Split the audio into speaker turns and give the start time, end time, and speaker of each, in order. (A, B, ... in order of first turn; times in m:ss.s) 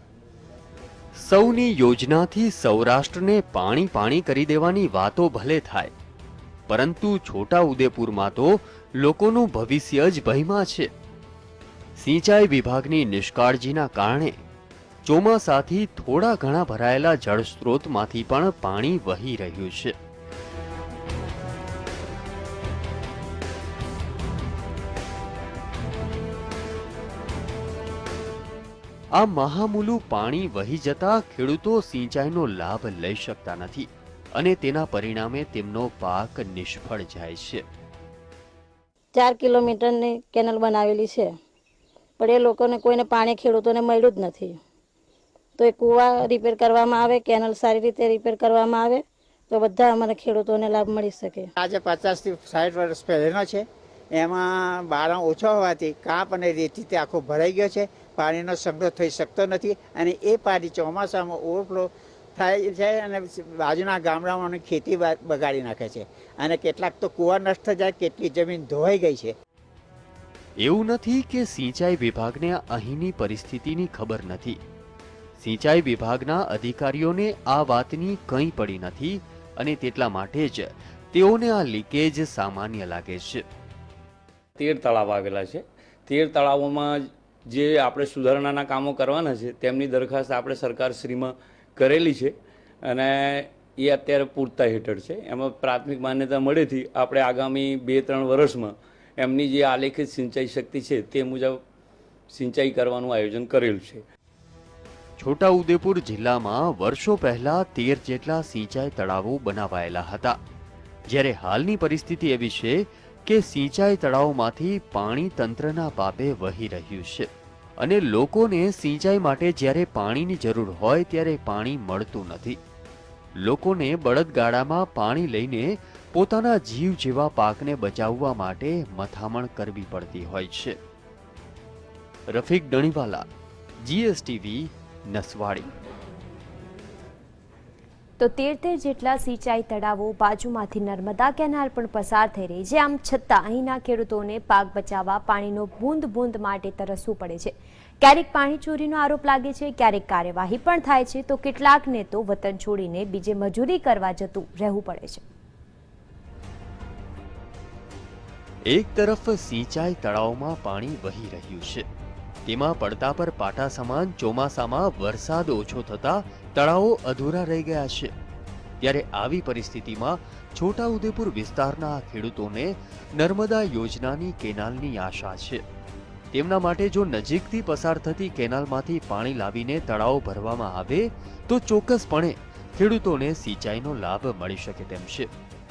0:01.2-0:05.9 A
0:06.7-0:10.9 A
0:12.0-0:14.4 A
0:15.0-0:20.0 A
0:29.1-0:37.6 A
0:39.2-0:41.3 B
0:42.2-0:44.6 B
0:45.6-0:51.5 B
0:51.6-1:09.3 C
1:10.6-1:14.6 A
1:15.4-1:23.4 A
1:24.6-1:41.6 D
1:42.3-1:44.0 D
1:45.2-1:50.4 A
1:51.1-2:02.6 A
2:03.4-2:10.8 A
2:12.3-2:13.3 A
2:13.8-2:15.7 A
2:18.2-2:35.2 E
2:38.7-2:41.8 A
2:42.5-2:48.1 A
2:48.8-2:55.6 A
2:56.3-3:05.3 A